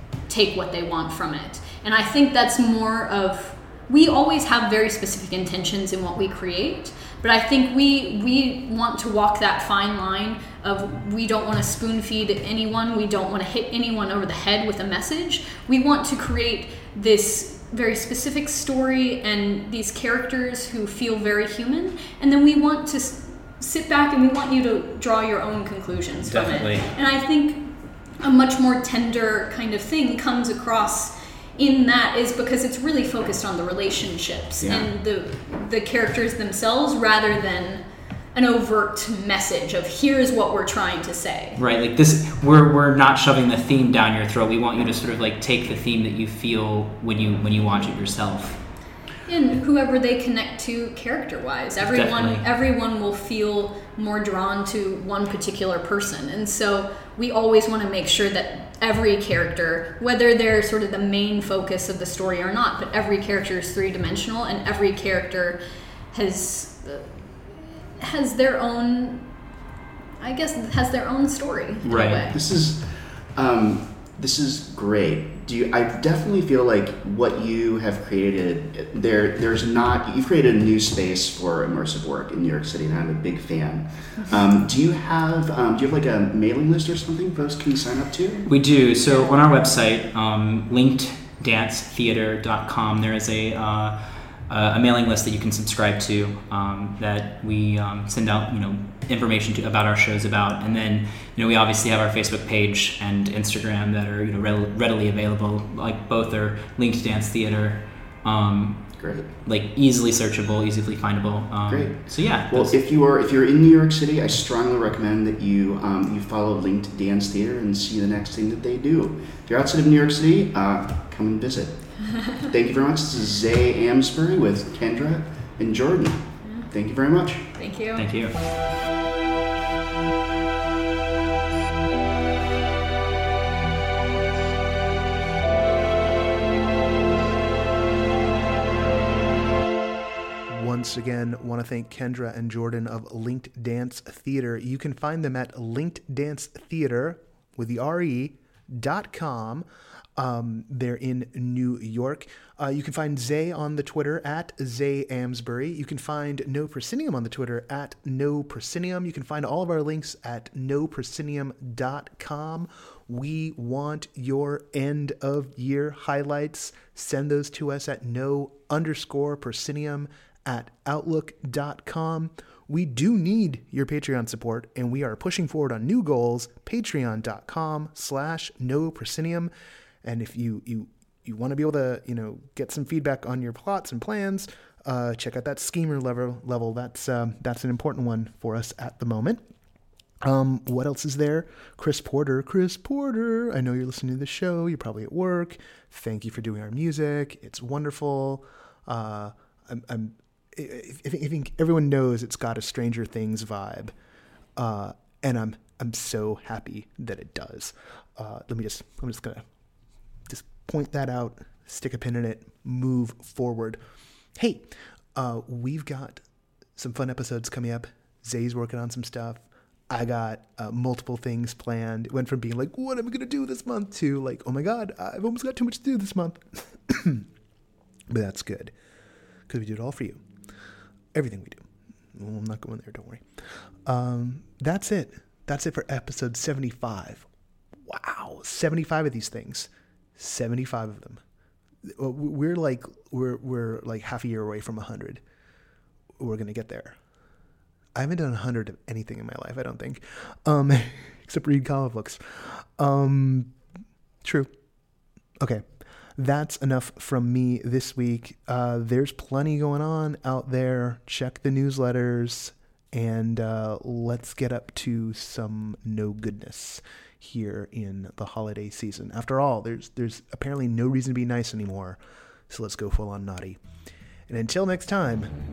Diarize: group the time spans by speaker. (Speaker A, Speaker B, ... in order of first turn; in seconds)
Speaker A: 0.3-37.8, 38.3-41.6, 49.3-65.6, 66.1-69.2, 70.2-72.4, 89.0-89.3, 126.4-126.7, 127.5-128.0
Speaker B: 26.2-26.9, 41.5-48.6, 51.8-52.4, 71.8-72.2, 88.5-94.0, 94.5-108.9, 109.5-112.8, 128.0-128.3
Speaker C: 34.6-34.9, 72.3-88.5, 109.0-109.3, 111.7-127.5
Speaker D: 140.5-179.5, 180.0-189.4, 190.2-203.9, 204.6-209.4, 210.3-213.8, 214.3-216.2, 216.8-227.3, 228.1-228.7, 229.5-230.2, 231.1-233.2, 233.8-237.2, 237.8-241.2, 241.8-245.2, 246.2-247.0, 247.9-253.5, 254.2-254.5, 256.1-273.6, 274.3-275.3